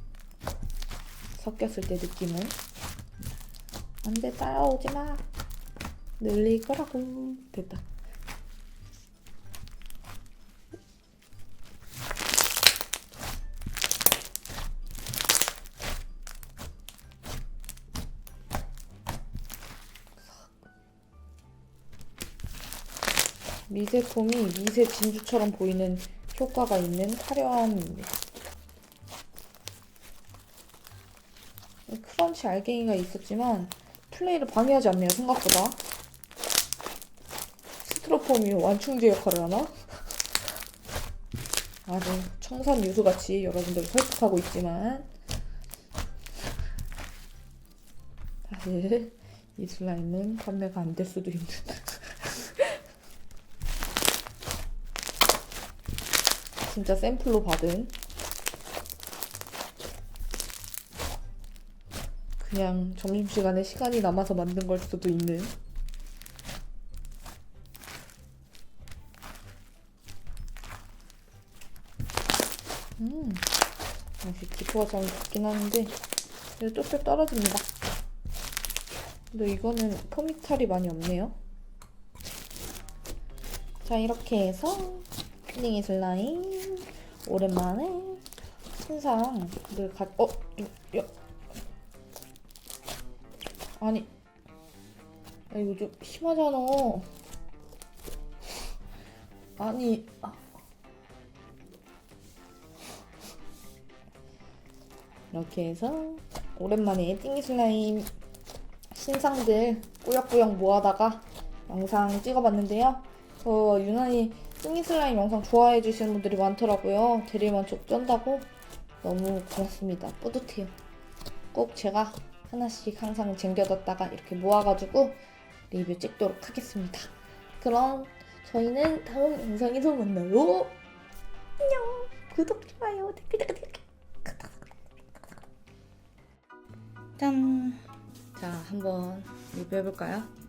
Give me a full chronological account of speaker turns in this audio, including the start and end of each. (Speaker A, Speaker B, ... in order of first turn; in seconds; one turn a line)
Speaker A: 1.4-2.6
Speaker A: 4.0-5.3
Speaker A: 6.2-7.9
Speaker A: 20.2-20.5
Speaker A: 23.7-28.1
Speaker A: 31.9-35.8
Speaker A: 37.8-40.2
Speaker A: 41.9-45.1
Speaker A: 48.5-52.8
Speaker A: 56.6-58.0
Speaker A: 62.4-65.5
Speaker A: 73.0-73.5
Speaker A: 74.2-76.0
Speaker A: 76.6-77.7
Speaker A: 79.3-81.4
Speaker A: 83.8-88.3
Speaker A: 88.8-91.1
Speaker A: 93.8-94.1
Speaker A: 95.5-97.1
Speaker A: 99.6-100.4
Speaker A: 105.3-108.1
Speaker A: 108.9-118.5
Speaker A: 119.0-120.7
Speaker A: 121.5-130.8
Speaker A: 131.6-135.2
Speaker A: 137.2-140.3